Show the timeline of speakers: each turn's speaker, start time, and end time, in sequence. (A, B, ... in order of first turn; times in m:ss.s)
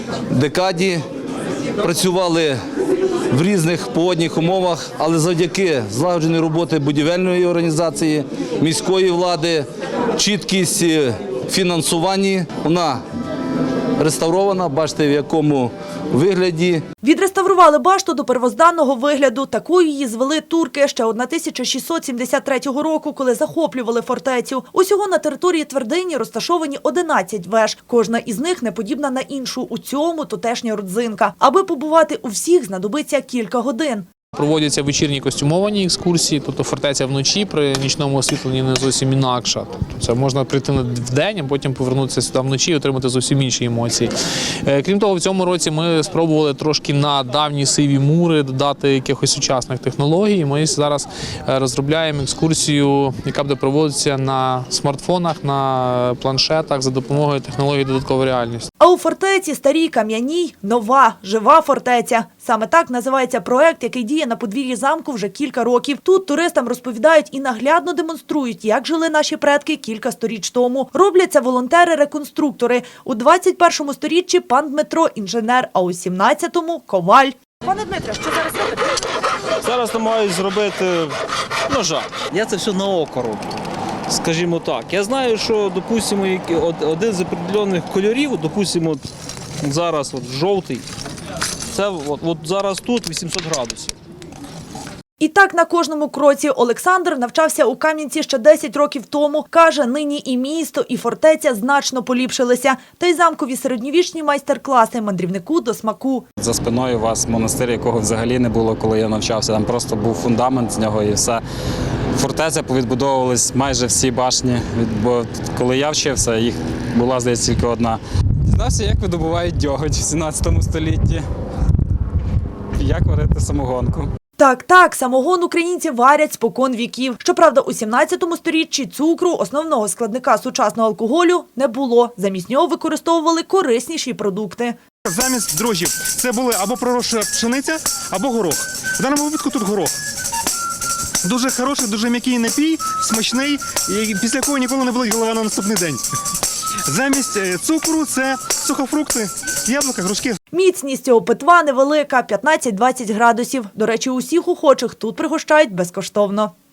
0:00.3-0:01.0 A
0:01.8-0:02.6 A
0:03.3-0:13.0 A
0:14.0-0:16.8 A
0:17.0-0:34.1 B
0:34.3-0:44.1 C
0:44.6-0:58.7 C
0:58.8-1:18.7 B
1:19.6-1:21.2 D
1:21.7-1:23.5 D
1:24.1-1:29.0 D
1:29.6-1:30.8 D
1:31.7-1:33.9 D
1:35.2-1:46.2 B
1:46.4-1:51.4 E
1:52.2-2:01.2 E
2:02.8-2:04.1 E
2:04.4-2:14.8 B
2:15.0-2:19.9 F
2:21.2-2:26.0 F
2:26.9-2:30.4 F
2:30.5-2:36.5 B